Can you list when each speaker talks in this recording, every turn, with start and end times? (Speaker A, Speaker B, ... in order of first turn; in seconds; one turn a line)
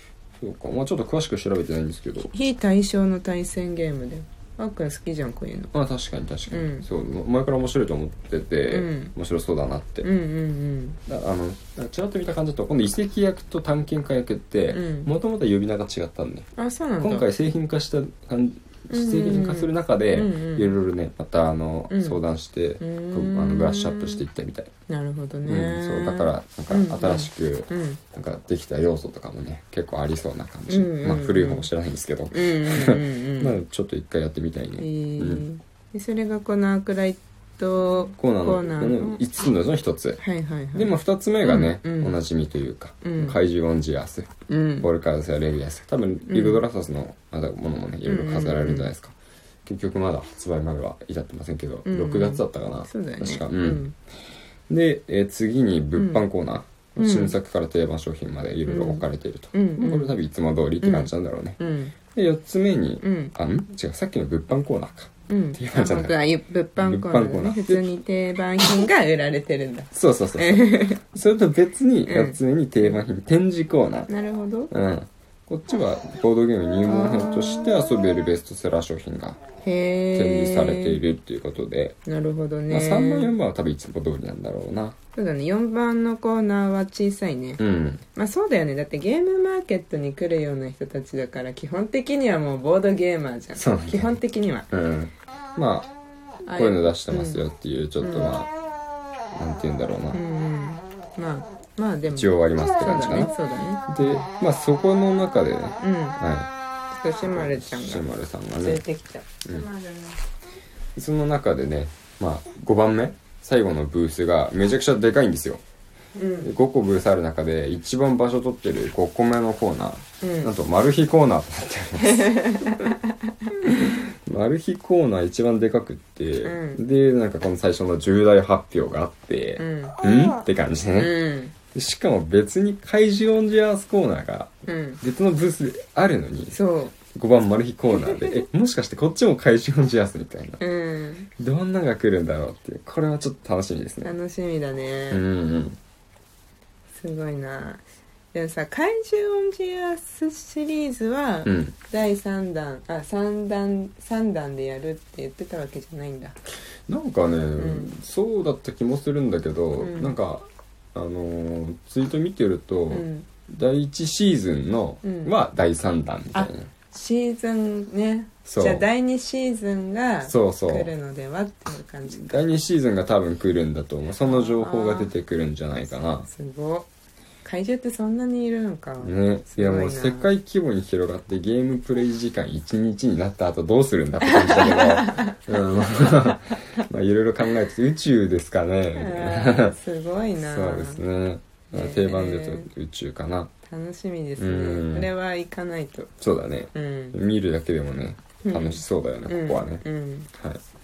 Speaker A: 0.4-2.3
Speaker B: 2.3-5.7
Speaker A: 5.7-10.1
Speaker B: 6.5-6.9
Speaker B: 8.7-9.1
Speaker B: 10.0-11.0
Speaker A: 11.1-16.5
Speaker B: 14.7-15.1
Speaker B: 16.6-17.3
Speaker A: 17.0-24.7
Speaker B: 18.9-20.7
Speaker B: 21.9-22.2
Speaker B: 22.8-24.2
Speaker B: 24.9-28.0
Speaker A: 25.5-35.4
Speaker B: 30.7-31.7
Speaker B: 32.3-33.6
Speaker B: 34.8-39.2
Speaker A: 38.2-40.2
Speaker B: 40.2-40.9
Speaker A: 40.7-49.1
Speaker B: 41.4-42.2
Speaker B: 43.0-43.4
Speaker B: 44.5-44.9
Speaker B: 46.3-46.6
Speaker B: 48.1-48.9
Speaker A: 49.7-53.9
Speaker B: 51.9-53.9
Speaker A: 54.7-61.6
Speaker B: 56.0-56.3
Speaker B: 57.0-57.4
Speaker B: 58.7-60.2
Speaker B: 60.8-62.0
Speaker A: 62.1-66.2
Speaker B: 63.0-63.3
Speaker B: 65.3-71.0
Speaker A: 66.8-67.9
Speaker A: 69.9-74.1
Speaker B: 72.1-73.0
Speaker B: 74.1-74.7
Speaker A: 74.7-79.4
Speaker B: 76.9-77.9
Speaker B: 79.6-81.0
Speaker A: 80.1-82.0
Speaker B: 82.0-83.3
Speaker A: 82.7-85.0
Speaker B: 85.1-87.6
Speaker A: 87.6-88.0
Speaker B: 88.1-94.7
Speaker A: 93.5-94.2
Speaker A: 94.7-95.9
Speaker B: 96.5-97.4
Speaker A: 96.5-98.5
Speaker B: 98.0-98.4
Speaker A: 99.4-100.2
Speaker B: 100.1-103.8
Speaker A: 102.1-103.3
Speaker A: 103.9-106.5
Speaker B: 105.8-106.2
Speaker B: 106.9-108.1
Speaker A: 107.3-108.8
Speaker B: 108.6-110.2
Speaker A: 111.0-115.6
Speaker B: 116.2-116.5
Speaker A: 116.4-122.3
Speaker B: 120.2-120.5
Speaker B: 122.0-123.0
Speaker A: 123.6-131.2
Speaker B: 126.4-126.8
Speaker B: 129.6-130.0
Speaker B: 131.0-131.5
Speaker A: 131.7-136.6
Speaker B: 134.7-135.0
Speaker B: 136.5-136.9
Speaker A: 137.1-140.6
Speaker B: 140.6-141.3
Speaker A: 141.4-144.1
Speaker B: 144.0-145.2
Speaker A: 145.1-145.8
Speaker B: 147.0-156.4
Speaker A: 151.5-151.8
Speaker A: 156.9-166.7
Speaker B: 157.6-157.9
Speaker B: 159.8-160.2
Speaker B: 162.9-163.3
Speaker B: 165.0-165.3
Speaker B: 166.3-172.4
Speaker A: 168.5-168.8
Speaker A: 170.2-170.9
Speaker A: 172.1-176.3
Speaker B: 174.2-175.1
Speaker B: 176.2-176.9
Speaker B: 177.4-180.3
Speaker A: 179.0-189.8
Speaker B: 184.2-185.4
Speaker B: 188.9-191.0
Speaker A: 190.4-193.5
Speaker B: 191.7-192.7
Speaker B: 193.7-196.1
Speaker A: 194.4-195.1
Speaker A: 196.2-200.6
Speaker B: 196.7-197.2
Speaker B: 198.4-200.3